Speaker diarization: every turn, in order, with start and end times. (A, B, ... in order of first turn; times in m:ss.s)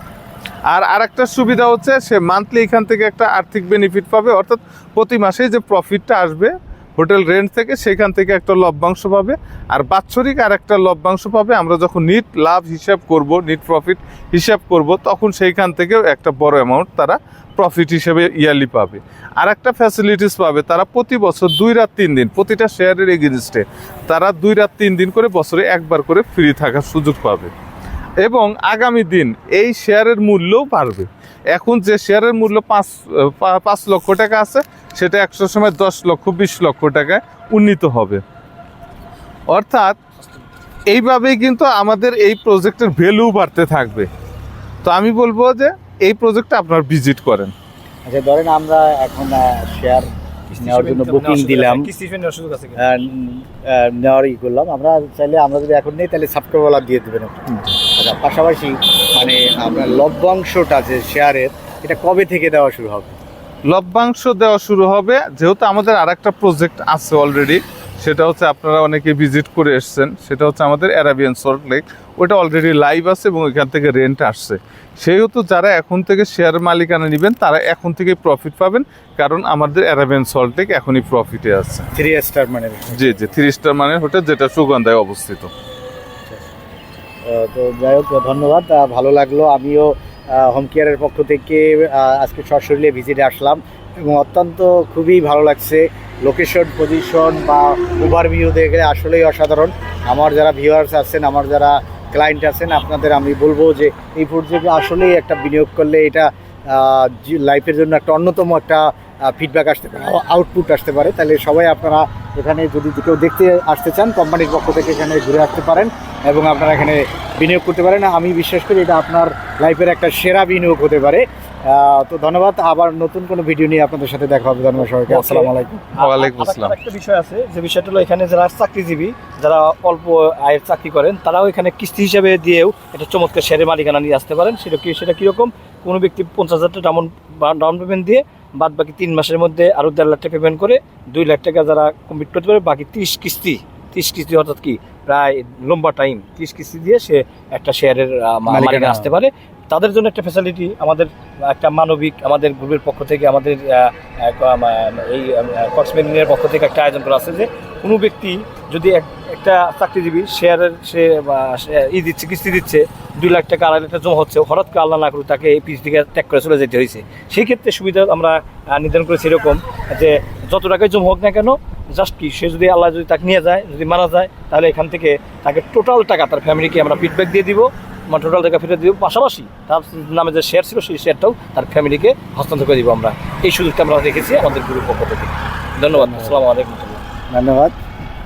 0:00.7-0:27.5 A
0:28.2-0:38.2 A
0:39.5-0:40.0 A
0:40.9-0:44.1 A
0:44.8-0:47.5 A
0:48.0-0:51.9 B
0:50.5-0:52.8 C
0:52.8-1:03.2 B
1:03.7-1:21.9 A
1:21.9-1:23.3 B
1:22.9-1:25.5 A
1:27.2-2:05.8 B
2:05.1-3:07.0 C
2:06.0-2:06.8 A
2:28.5-2:29.1 B
3:05.9-3:06.4 B
3:07.3-3:07.7 B